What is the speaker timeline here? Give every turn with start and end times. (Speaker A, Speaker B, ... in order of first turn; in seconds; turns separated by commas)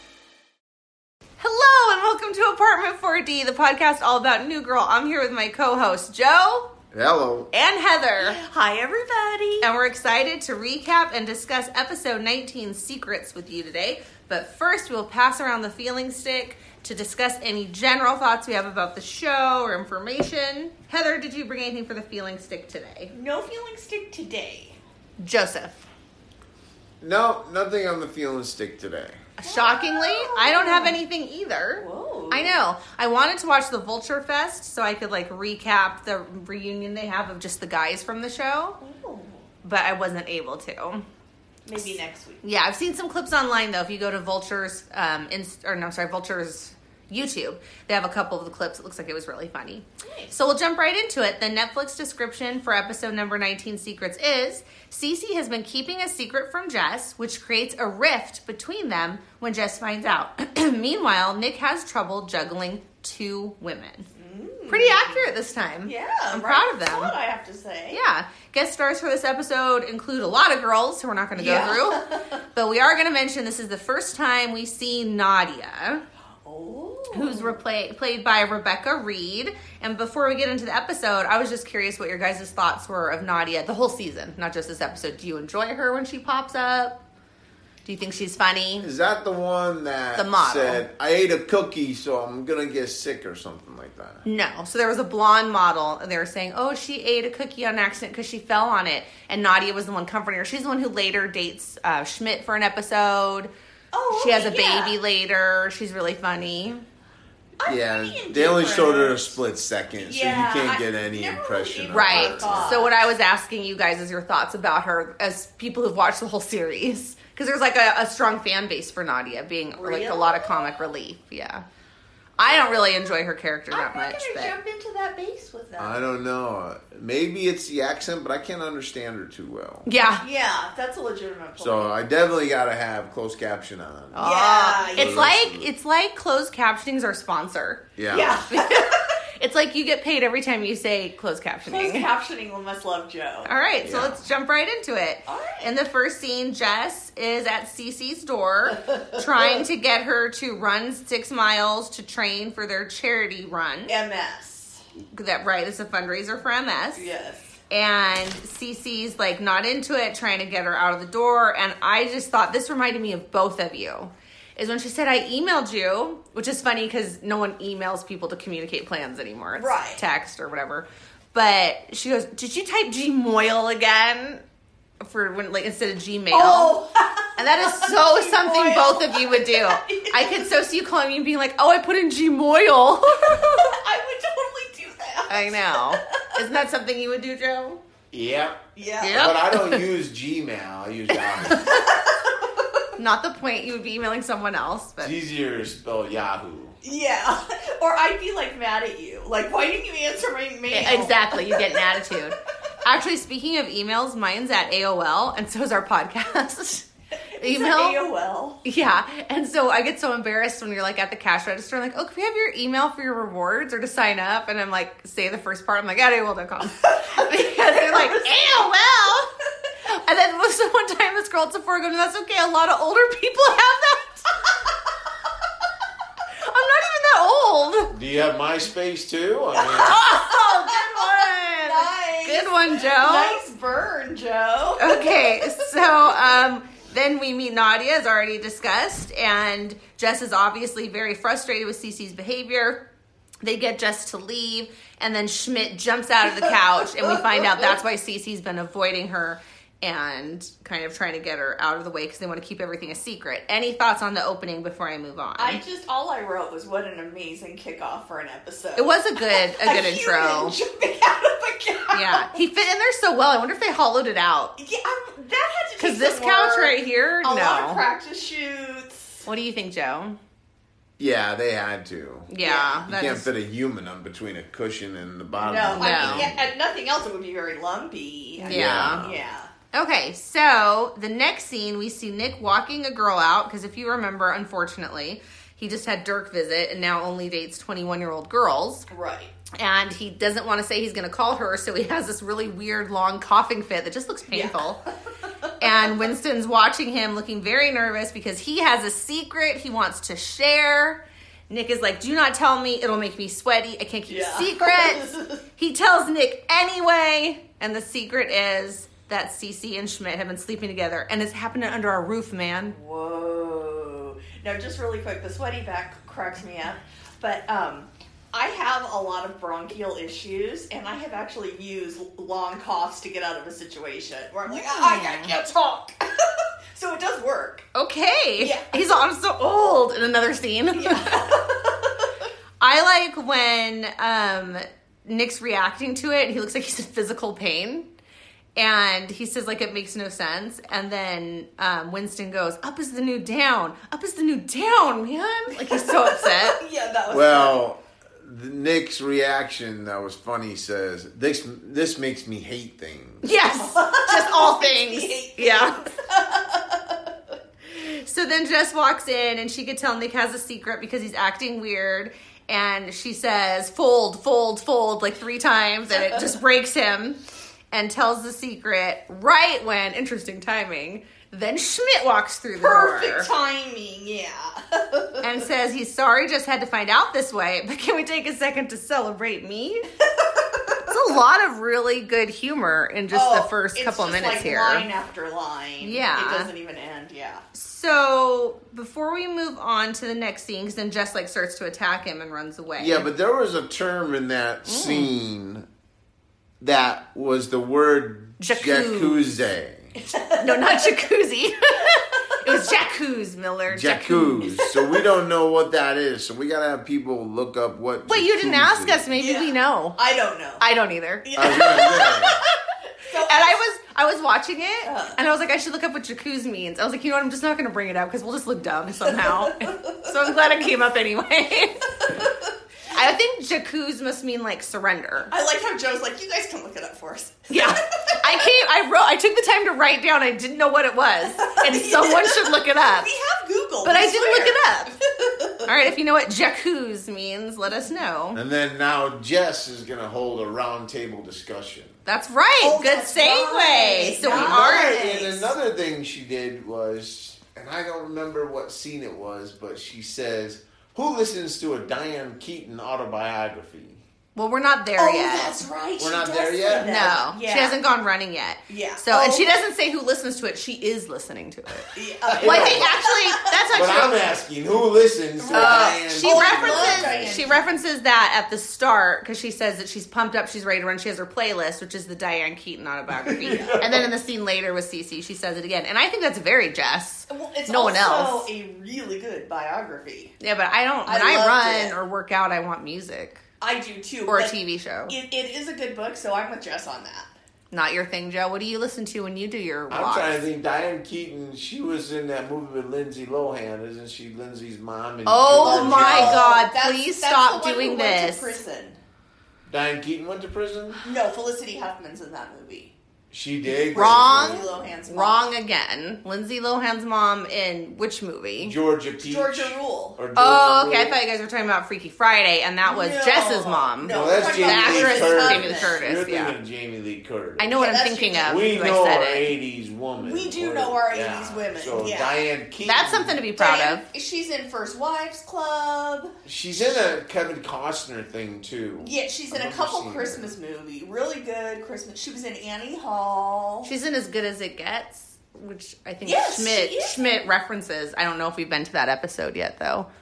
Speaker A: 1.4-6.7, Speaker B: 6.9-7.5, Speaker A: 7.5-8.4, Speaker C: 8.2-9.7, Speaker A: 9.6-23.1, Speaker C: 23.1-24.8, Speaker A: 25.2-25.9, Speaker B: 27.0-29.2, Speaker A: 29.4-38.8, Speaker C: 29.4-31.0, Speaker C: 31.8-32.6, Speaker C: 38.8-39.4, Speaker A: 39.6-41.1, Speaker C: 41.7-42.4, Speaker A: 42.4-64.1, Speaker C: 50.0-50.3, Speaker C: 64.2-68.0, Speaker A: 64.7-67.2, Speaker A: 67.9-76.0, Speaker C: 71.4-72.4, Speaker C: 76.4-77.6, Speaker A: 77.1-87.0, Speaker A: 87.8-88.9, Speaker B: 88.8-94.2, Speaker A: 90.2-90.8, Speaker A: 94.2-103.5, Speaker C: 103.9-105.0, Speaker A: 104.1-106.8, Speaker C: 107.6-109.3, Speaker B: 107.6-112.9, Speaker C: 110.0-113.0, Speaker A: 111.9-121.6, Speaker C: 119.8-120.9, Speaker A: 122.4-124.5, Speaker C: 122.4-122.8, Speaker C: 123.7-126.0, Speaker B: 125.8-129.9, Speaker A: 129.9-130.2, Speaker C: 130.2-131.9, Speaker B: 131.6-135.7, Speaker A: 134.1-137.9, Speaker C: 134.2-135.3, Speaker B: 138.0-138.4, Speaker C: 138.1-139.1, Speaker A: 138.5-142.1, Speaker C: 141.7-143.5, Speaker A: 143.5-154.0, Speaker B: 143.8-144.2, Speaker C: 145.3-145.7, Speaker C: 148.8-149.5, Speaker C: 153.9-154.8, Speaker A: 155.1-157.1, Speaker C: 157.0-157.5, Speaker A: 157.7-174.4, Speaker C: 169.6-170.0, Speaker A: 175.0-176.8, Speaker C: 176.3-180.5, Speaker A: 177.4-183.8, Speaker C: 183.4-186.2, Speaker A: 185.3-187.8, Speaker B: 188.1-191.7, Speaker C: 188.8-189.3, Speaker A: 189.0-189.8, Speaker C: 191.4-192.8, Speaker A: 191.5-191.8, Speaker A: 193.0-195.1, Speaker B: 195.0-196.8, Speaker C: 196.8-202.0, Speaker A: 200.7-206.9, Speaker C: 207.3-208.6, Speaker A: 207.4-208.0, Speaker A: 208.6-219.3, Speaker C: 216.8-218.9, Speaker A: 219.8-224.3, Speaker A: 226.4-227.9, Speaker B: 227.9-230.0, Speaker C: 229.5-236.0, Speaker A: 229.8-233.4, Speaker A: 234.8-242.8, Speaker A: 243.4-255.6, Speaker C: 255.4-262.4, Speaker A: 258.8-260.6, Speaker A: 261.9-264.6, Speaker C: 264.6-269.2, Speaker A: 265.8-267.9, Speaker A: 269.3-270.2, Speaker B: 271.0-272.3, Speaker A: 272.3-273.3, Speaker C: 272.4-272.9, Speaker B: 272.9-276.4, Speaker C: 275.4-279.5, Speaker A: 275.8-276.3, Speaker A: 278.4-279.1, Speaker B: 278.5-279.2, Speaker A: 279.7-288.9, Speaker C: 288.9-289.3, Speaker A: 289.5-294.8, Speaker C: 294.3-294.9, Speaker C: 295.4-295.9, Speaker A: 295.6-312.8, Speaker C: 304.1-305.4, Speaker C: 312.7-327.7, Speaker A: 324.5-325.4, Speaker A: 327.7-331.4, Speaker C: 328.4-328.8, Speaker C: 330.7-332.1, Speaker A: 332.6-337.9, Speaker A: 338.6-346.6, Speaker C: 345.5-347.6, Speaker B: 347.1-353.2, Speaker A: 353.2-355.9, Speaker C: 353.5-357.1, Speaker A: 357.7-373.3, Speaker C: 365.9-366.2, Speaker C: 372.6-375.2, Speaker A: 375.2-379.9, Speaker C: 380.2-380.8, Speaker A: 380.9-384.9, Speaker C: 383.1-387.4, Speaker A: 385.8-386.5, Speaker A: 387.5-393.1, Speaker B: 392.8-395.7, Speaker A: 394.7-395.1, Speaker B: 396.6-399.9, Speaker A: 398.4-399.4, Speaker C: 400.0-401.0, Speaker A: 400.4-404.5, Speaker B: 403.7-409.1, Speaker C: 404.5-404.9, Speaker A: 408.1-410.0, Speaker C: 409.2-410.6, Speaker A: 410.6-411.9, Speaker C: 411.2-413.6, Speaker B: 411.4-412.4, Speaker A: 413.2-422.1, Speaker C: 414.8-415.2, Speaker C: 418.9-420.3, Speaker C: 422.1-422.5, Speaker A: 422.9-425.3, Speaker C: 425.3-428.5, Speaker A: 427.5-433.1, Speaker C: 431.4-435.7, Speaker A: 433.8-434.9, Speaker A: 435.6-438.4, Speaker C: 437.7-437.9, Speaker B: 438.3-442.0, Speaker A: 442.1-445.0, Speaker C: 442.6-445.5, Speaker B: 444.3-454.0, Speaker A: 454.4-455.6, Speaker C: 455.0-457.8, Speaker B: 456.0-457.2, Speaker A: 456.8-464.3, Speaker C: 458.7-459.5, Speaker C: 461.9-463.5, Speaker B: 462.3-463.0, Speaker B: 463.7-467.5, Speaker C: 465.4-467.8, Speaker A: 465.5-478.5, Speaker B: 473.1-474.1, Speaker C: 473.4-473.8, Speaker C: 477.3-480.3, Speaker A: 480.4-483.4, Speaker C: 481.1-482.0, Speaker C: 483.6-487.3, Speaker A: 484.3-485.1, Speaker A: 487.7-490.4, Speaker B: 489.9-496.5, Speaker A: 495.3-498.6, Speaker C: 495.5-499.0, Speaker B: 499.7-501.0, Speaker C: 501.0-502.9, Speaker B: 503.3-504.9, Speaker C: 503.7-505.5, Speaker A: 503.9-508.8, Speaker B: 508.6-511.2, Speaker C: 509.2-510.2, Speaker A: 510.4-516.6, Speaker C: 512.8-516.0, Speaker B: 514.1-517.8, Speaker A: 517.6-519.5, Speaker C: 517.8-518.7, Speaker B: 518.4-523.4, Speaker C: 520.2-522.4, Speaker A: 522.9-524.1, Speaker C: 523.6-526.3, Speaker B: 526.5-530.5, Speaker C: 529.0-533.9, Speaker A: 533.9-540.1, Speaker C: 536.2-537.2